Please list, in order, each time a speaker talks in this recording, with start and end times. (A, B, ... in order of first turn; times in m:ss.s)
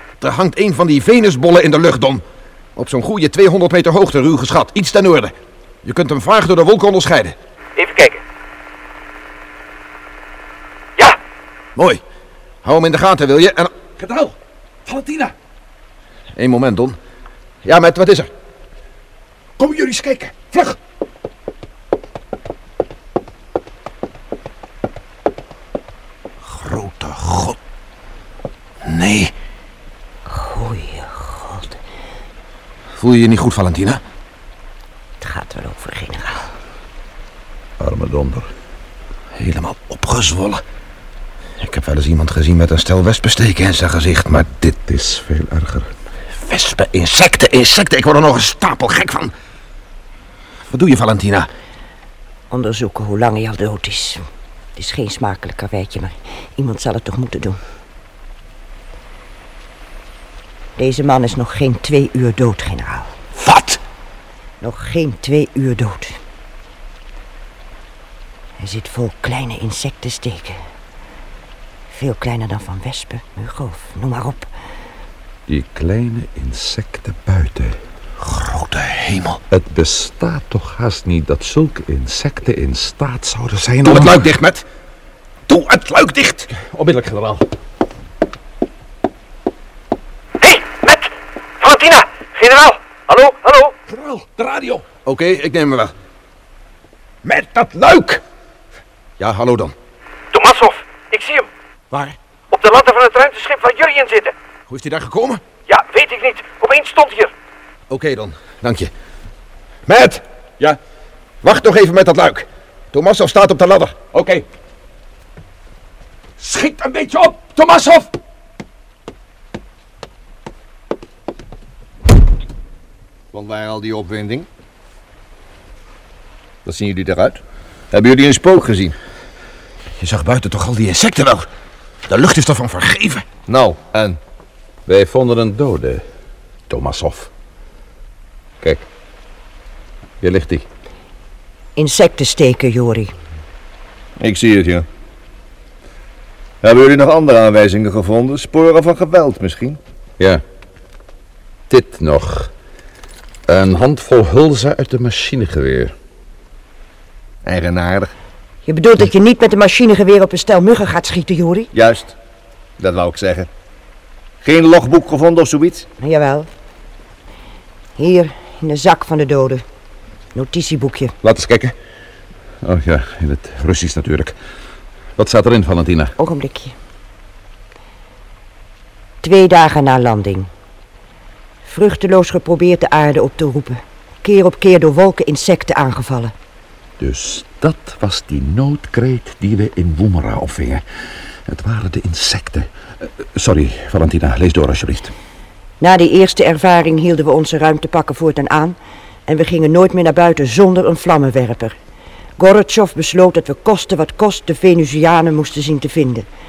0:00.2-0:02.2 A
0:02.8-0:07.4 A
0:07.8-0:08.2 B
0:11.8-0:12.0 A
0:12.6-0:13.7 A
0:14.0-0:14.3 C
0:14.9-0:15.3 C
0:16.4-0:17.0 A
0:17.6-0:18.3 A
0:19.6-0:20.8 C
0:26.5-0:27.6 A
0:28.8-0:29.3 A
0:30.3-0:31.8 D
0:33.0-0:34.0 A
0:35.2-0:36.5 D
0:37.8-0:38.5 C
0:39.4-0:40.6 A
0:41.6-0:44.7 A
0:44.6-0:45.9 C
0:46.4-0:49.3 A
0:50.7-0:51.5 A
0:52.5-0:54.2 D
0:54.8-0:57.6 D
1:00.8-1:03.2 D
1:03.4-1:03.8 A
1:04.6-1:06.2 D
1:08.6-1:10.6 D
1:11.9-1:14.5 D
1:15.5-1:17.8 C
1:18.2-1:19.4 A
1:19.5-1:24.2 C
1:23.8-1:24.6 A
1:25.5-1:26.5 A
1:26.6-1:27.4 C
1:30.4-1:33.7 B
1:33.9-1:34.8 C
1:35.0-1:35.9 A
1:37.2-1:38.2 A
1:39.2-1:39.8 A
1:40.3-1:41.5 B
1:41.9-1:42.2 A
1:42.5-1:44.3 B
1:44.7-1:45.4 A
1:45.7-1:47.3 B
1:47.9-1:48.9 A
1:49.9-1:50.2 A
1:51.4-1:54.0 A
1:54.1-1:54.4 C
1:56.4-1:58.1 C
2:03.3-2:04.5 E
2:06.6-2:07.4 E
2:07.9-2:08.9 E
2:10.0-2:11.5 A
2:12.1-2:13.3 A
2:13.5-2:14.2 E
2:14.9-2:16.0 C
2:16.7-2:17.3 C
2:20.2-2:20.6 C
2:21.8-2:23.1 D
2:24.2-2:24.9 E
2:26.6-2:29.8 E
2:31.7-2:32.5 C
2:33.5-2:35.9 C
2:37.4-2:38.1 E
2:38.6-2:41.7 D
2:41.7-2:42.1 E
2:42.8-2:43.5 E
2:44.4-2:45.9 E
2:46.0-2:46.5 D
2:48.0-2:49.6 D
2:50.3-2:51.1 D
2:51.2-2:51.7 C
2:52.6-2:54.3 C
2:55.2-2:56.1 C
2:56.2-2:56.7 D
2:59.2-3:00.5 D
3:01.6-3:06.3 D
3:07.0-3:10.8 C
3:11.5-3:12.7 C
3:13.4-3:15.1 C
3:15.8-3:21.8 D
3:22.4-3:26.3 D